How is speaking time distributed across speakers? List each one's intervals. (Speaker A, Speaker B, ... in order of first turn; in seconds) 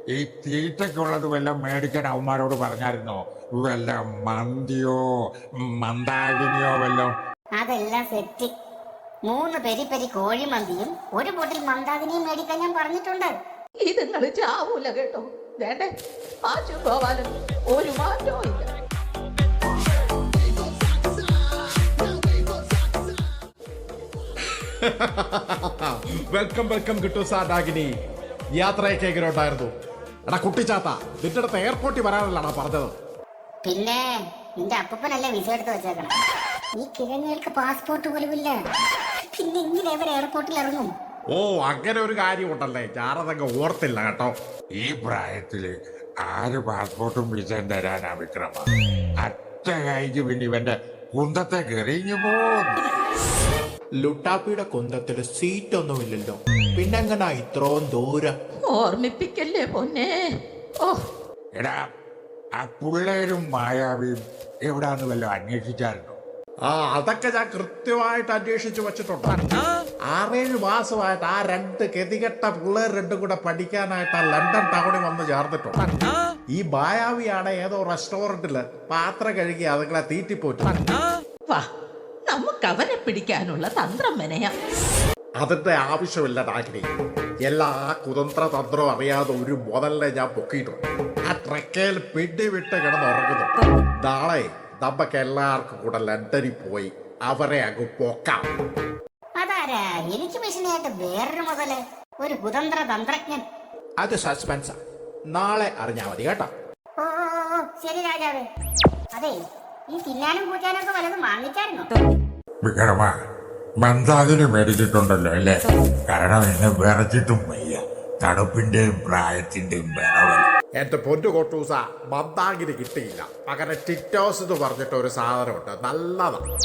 Speaker A: 0.1-5.0, 5.8-7.1, 44.8-45.7, 46.2-48.6, 49.2-52.9, 62.6-66.2, 112.6-113.1, 113.8-120.5
Speaker B: 7.6-8.5, 9.3-13.3, 33.6-34.0, 34.6-36.1, 36.8-38.6, 39.4-40.9, 99.4-103.4, 107.0-108.5, 109.9-111.9
Speaker C: 13.9-15.9, 16.4-18.7, 58.7-60.3, 82.3-84.5
Speaker D: 24.8-27.9, 28.6-29.7, 30.3-32.9, 41.3-44.4, 66.7-69.4, 70.1-75.8, 76.6-80.9, 85.4-86.9, 87.5-98.5, 120.8-126.4
Speaker E: 54.0-58.4, 104.0-104.8, 105.3-106.5